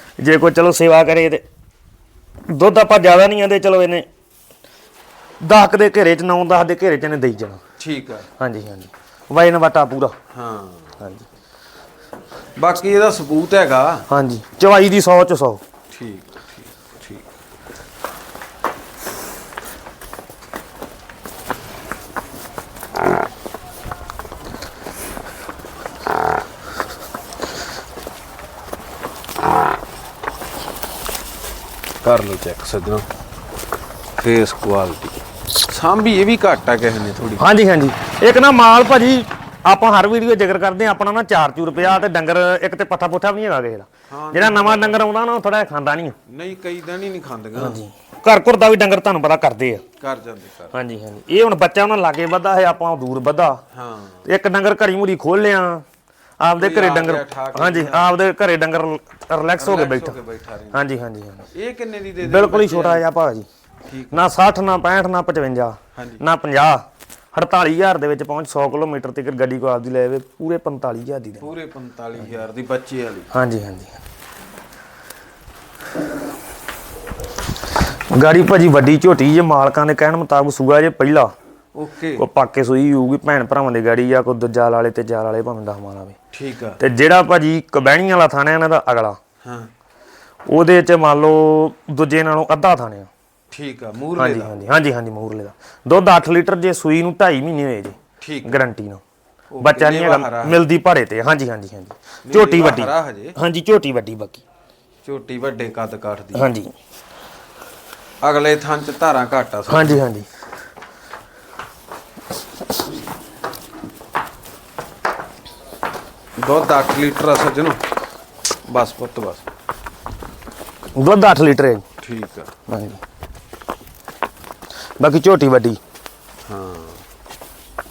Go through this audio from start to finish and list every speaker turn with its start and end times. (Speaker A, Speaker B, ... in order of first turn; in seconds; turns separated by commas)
Speaker A: 0.2-1.4, Speaker A: 2.5-4.0, Speaker A: 5.4-7.6, Speaker B: 7.8-8.3, Speaker A: 8.4-10.1, Speaker B: 10.3-11.0, Speaker A: 11.0-11.2, Speaker B: 12.6-14.1, Speaker A: 14.1-15.6, Speaker B: 15.9-17.2, Speaker B: 32.0-33.0, Speaker B: 34.2-37.5, Speaker A: 37.4-46.1, Speaker B: 44.1-45.0, Speaker B: 46.3-47.8, Speaker A: 47.5-49.8, Speaker B: 50.0-50.7, Speaker A: 50.7-53.6, Speaker B: 53.7-54.2, Speaker A: 54.2-55.8, Speaker A: 56.4-60.1, Speaker B: 56.6-58.1, Speaker B: 59.6-60.8, Speaker A: 60.7-61.5, Speaker B: 61.5-63.0, Speaker A: 62.2-63.5, Speaker B: 63.9-64.2, Speaker A: 64.1-71.5, Speaker B: 65.9-66.2, Speaker B: 71.4-73.3, Speaker A: 73.3-73.9, Speaker A: 78.1-81.3, Speaker B: 81.7-82.2, Speaker A: 82.2-86.1, Speaker B: 86.3-86.8, Speaker A: 86.8-89.2, Speaker B: 89.4-89.7, Speaker A: 90.5-93.1, Speaker B: 93.5-94.6, Speaker A: 94.2-99.0, Speaker B: 98.2-98.6, Speaker B: 99.5-100.6, Speaker A: 99.6-104.4, Speaker B: 102.2-103.3, Speaker B: 105.0-106.5, Speaker A: 106.3-106.7, Speaker B: 108.2-110.0, Speaker A: 109.7-110.3, Speaker B: 116.4-117.8, Speaker B: 118.7-119.4, Speaker A: 121.0-121.8, Speaker B: 122.0-122.5, Speaker A: 122.7-123.0, Speaker A: 125.0-125.8, Speaker B: 126.5-127.0